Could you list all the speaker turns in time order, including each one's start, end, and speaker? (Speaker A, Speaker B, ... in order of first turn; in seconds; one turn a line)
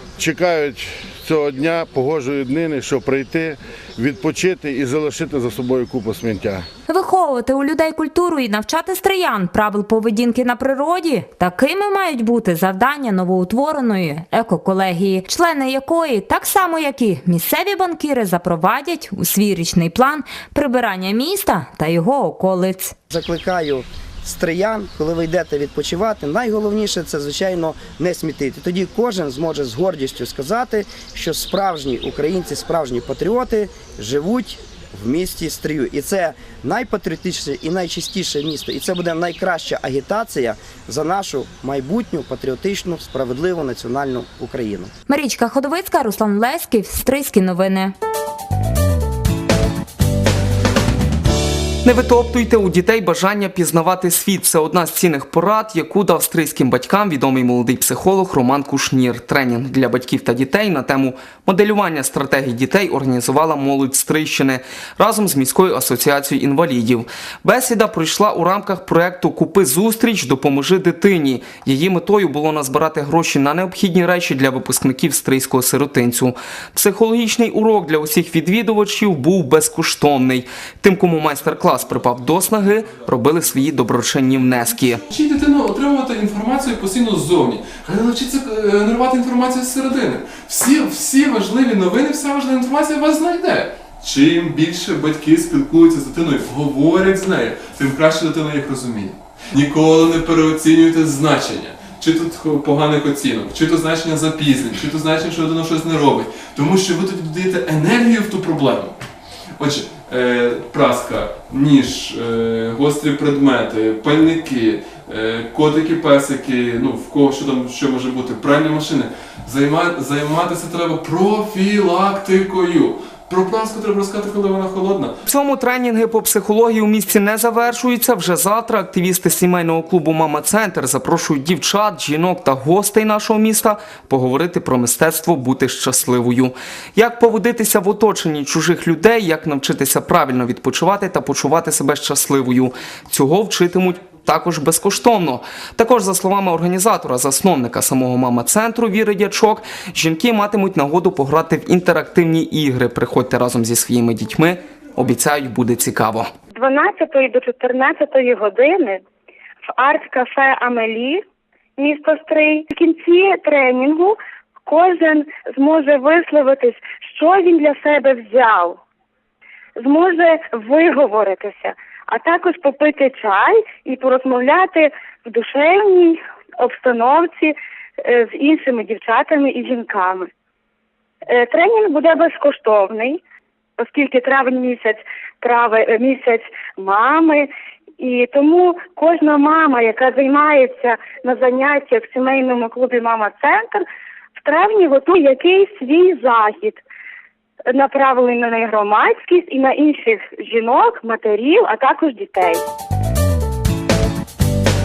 Speaker A: 0.2-6.6
Speaker B: 6.9-22.9
Speaker C: 23.1-44.9
Speaker B: 45.1-47.9
Speaker D: 51.8-85.0
Speaker E: 85.1-109.0
Speaker E: 109.6-125.2
Speaker D: 125.2-156.3
Speaker F: 156.5-159.0
Speaker F: 159.8-161.2
Speaker F: 161.8-168.8
Speaker F: 169.8-177.5
Speaker F: 178.1-180.3
Speaker F: 181.3-183.2
Speaker F: 183.8-187.5
Speaker F: 188.0-193.8
Speaker F: 194.4-196.8
Speaker F: 197.7-202.6